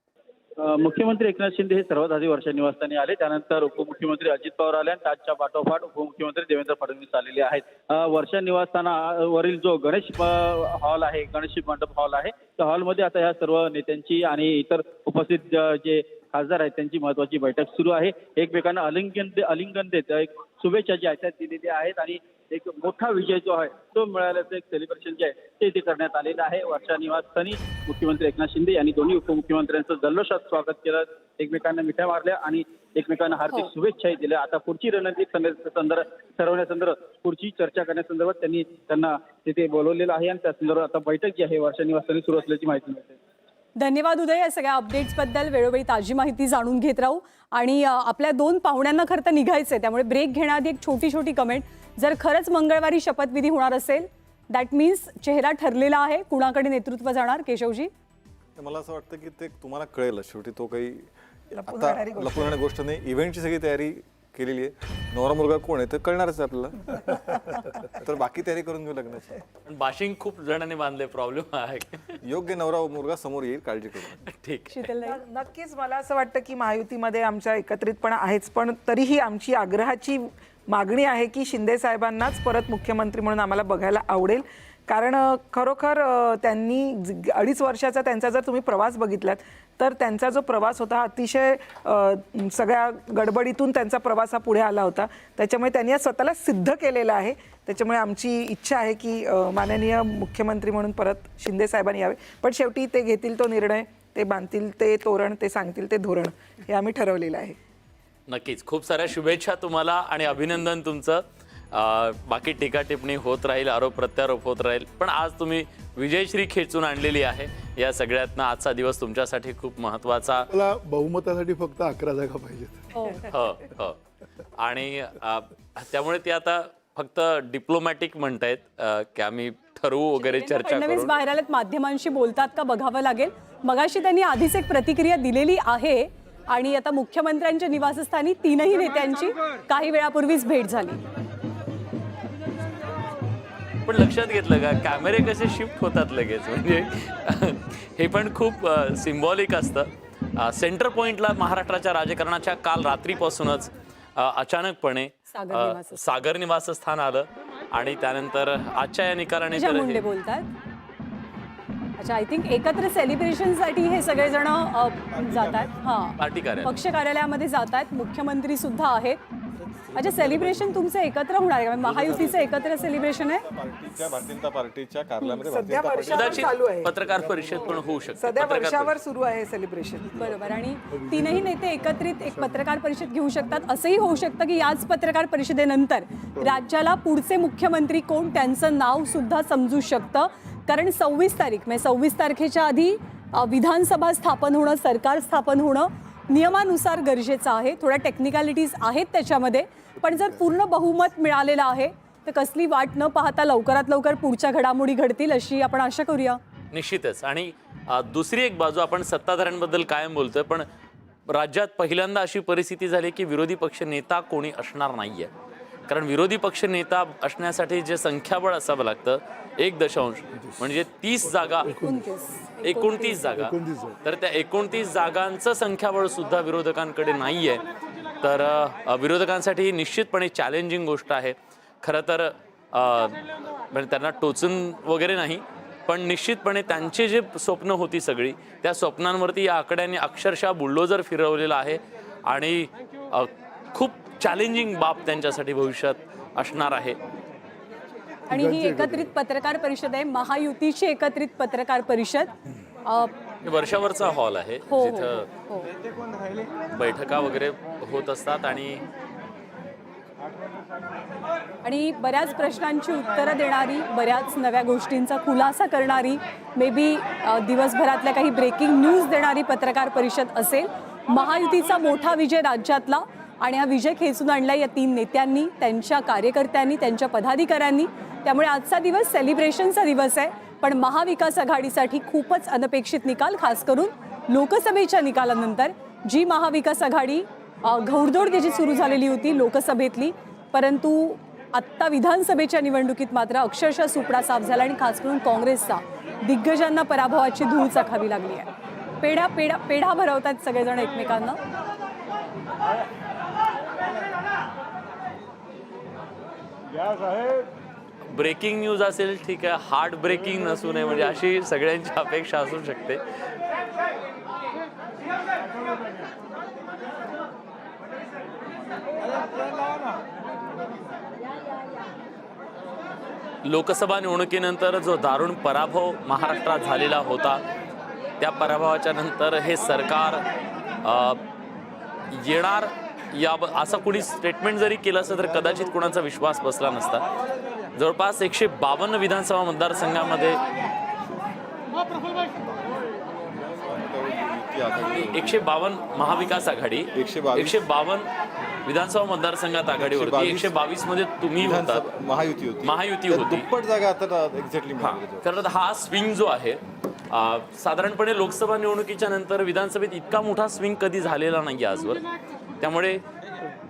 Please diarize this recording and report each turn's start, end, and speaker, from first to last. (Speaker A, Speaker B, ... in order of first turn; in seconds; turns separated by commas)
Speaker A: 0.6-43.2, Speaker B: 43.8-57.9, Speaker C: 58.6-61.1, Speaker D: 61.5-62.6, Speaker C: 61.6-69.4, Speaker E: 69.7-72.0, Speaker C: 72.2-74.2, Speaker E: 74.2-74.9, Speaker B: 74.7-75.2, Speaker D: 75.0-107.6, Speaker E: 108.3-120.5, Speaker F: 120.5-122.8, Speaker B: 122.9-123.2, Speaker E: 123.2-124.0, Speaker E: 124.6-131.1, Speaker B: 130.2-141.0, Speaker E: 143.8-160.0, Speaker B: 155.3-156.0, Speaker B: 159.5-160.5, Speaker B: 162.0-169.2, Speaker C: 165.1-165.7, Speaker E: 166.2-166.7, Speaker C: 169.9-170.5, Speaker B: 169.9-173.4, Speaker C: 171.8-176.3, Speaker D: 175.2-177.0, Speaker E: 176.1-178.9, Speaker D: 178.2-180.2, Speaker B: 180.2-206.4, Speaker F: 180.9-182.6, Speaker E: 206.7-210.6, Speaker E: 211.3-215.3, Speaker E: 215.9-221.7, Speaker F: 221.6-222.0, Speaker B: 221.7-223.5, Speaker E: 222.6-227.7, Speaker F: 223.3-223.9, Speaker E: 228.2-247.0, Speaker B: 248.3-252.3, Speaker F: 248.3-249.1, Speaker B: 252.8-253.1, Speaker E: 253.4-255.3, Speaker B: 254.7-255.7, Speaker E: 256.7-258.8, Speaker B: 261.6-298.5, Speaker B: 299.0-301.4, Speaker E: 308.1-313.0, Speaker E: 323.4-327.4, Speaker E: 328.2-330.2, Speaker E: 330.8-331.2, Speaker E: 332.1-337.0, Speaker E: 337.7-340.4, Speaker C: 342.4-342.8, Speaker C: 343.3-345.4, Speaker E: 345.1-348.1, Speaker C: 346.9-347.7, Speaker E: 348.6-351.8, Speaker C: 349.7-350.6, Speaker C: 351.4-355.2, Speaker E: 352.6-353.5, Speaker E: 354.8-362.1, Speaker E: 362.6-363.0